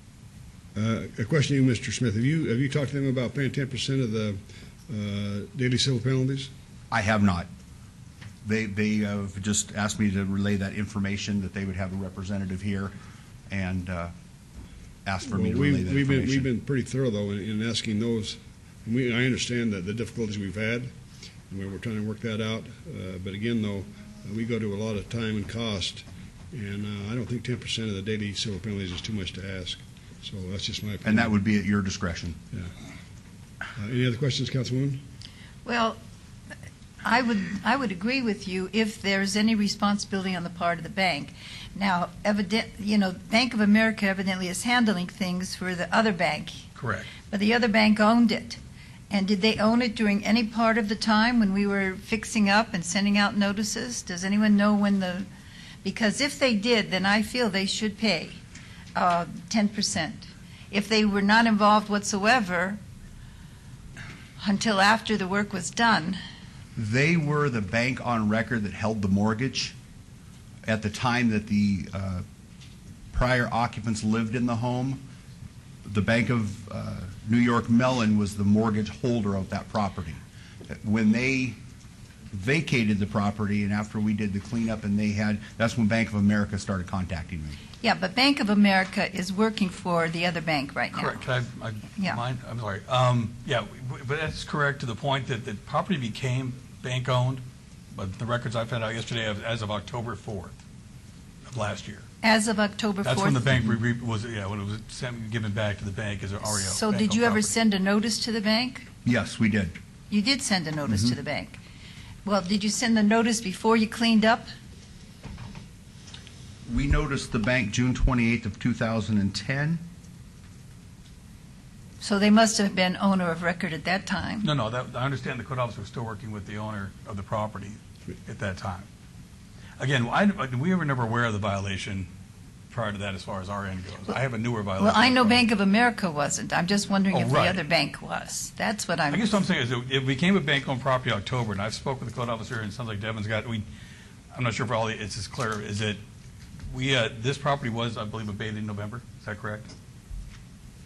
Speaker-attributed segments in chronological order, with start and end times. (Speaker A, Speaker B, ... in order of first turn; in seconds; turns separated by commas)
Speaker A: 0.8-6.5, Speaker B: 6.9-7.5, Speaker B: 8.4-12.9, Speaker B: 13.5-14.1, Speaker B: 15.1-16.5, Speaker A: 15.2-20.9, Speaker A: 21.5-31.3, Speaker B: 31.1-32.4, Speaker A: 33.8-35.0, Speaker C: 35.6-36.0, Speaker C: 37.0-46.6, Speaker D: 46.8-47.1, Speaker C: 47.2-55.3, Speaker C: 55.8-58.4, Speaker C: 59.0-62.8, Speaker C: 64.4-66.2, Speaker B: 66.8-69.8, Speaker B: 70.7-72.2, Speaker B: 73.1-75.0, Speaker B: 75.8-81.6, Speaker B: 82.3-87.6, Speaker C: 87.8-91.2, Speaker D: 90.9-100.5, Speaker D: 101.5-102.1, Speaker C: 102.2-103.5, Speaker D: 103.0-107.5, Speaker C: 106.5-108.9, Speaker B: 109.0-109.8, Speaker C: 110.1-111.6, Speaker B: 110.9-111.2, Speaker C: 112.2-114.5, Speaker B: 116.7-119.8, Speaker C: 122.0-124.5, Speaker D: 124.4-128.9, Speaker D: 129.8-132.1, Speaker D: 132.7-135.5, Speaker C: 134.8-139.4, Speaker D: 137.1-137.6, Speaker D: 139.1-143.7, Speaker D: 144.3-146.0, Speaker D: 146.7-149.7